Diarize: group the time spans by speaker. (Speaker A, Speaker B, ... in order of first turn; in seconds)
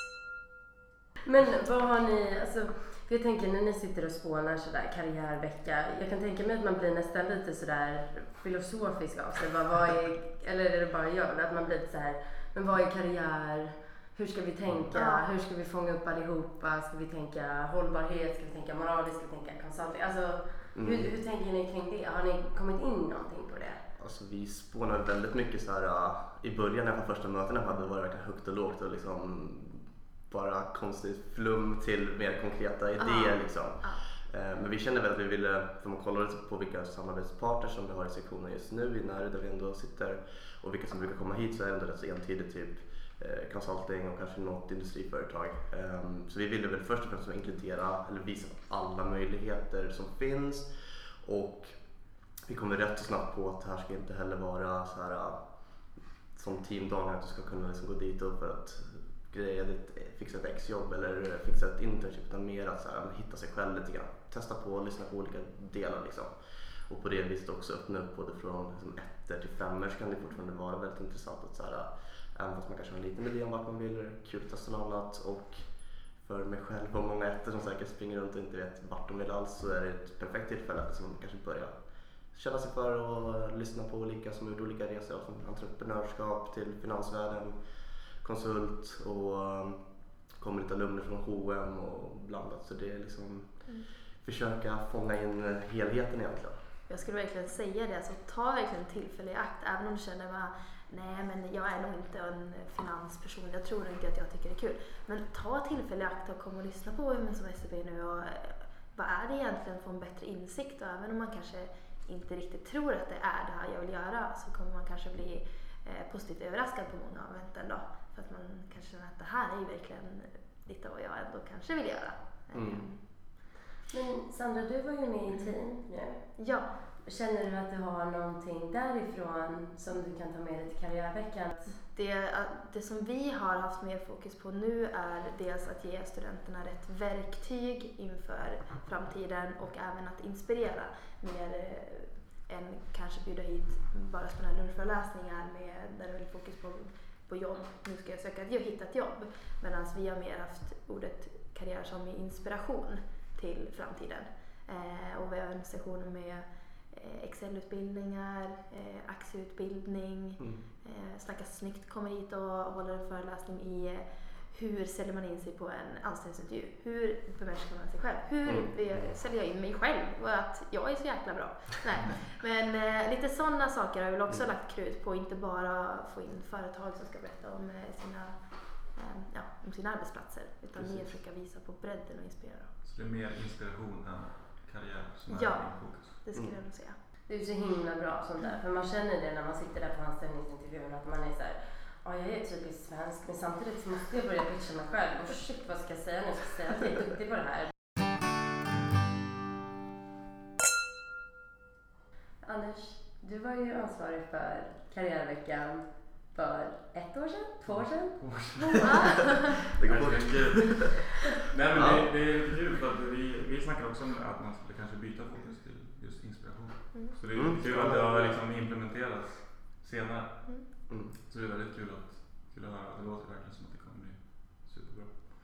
Speaker A: 1.2-23.8, 123.8-131.8, 187.3-197.7, 202.4-208.9
Speaker B: 14.9-15.2, 33.0-34.0, 96.9-123.0, 126.4-126.7, 131.8-182.7, 185.3-187.0, 208.8-209.4, 216.9-217.4
Speaker C: 20.7-21.1, 24.0-96.6, 122.5-122.9, 160.4-160.6, 168.4-169.1, 180.8-181.2, 186.3-186.6, 209.8-211.0, 211.7-212.2, 217.3-218.4, 220.9-221.1
Speaker D: 182.8-186.2, 207.7-225.2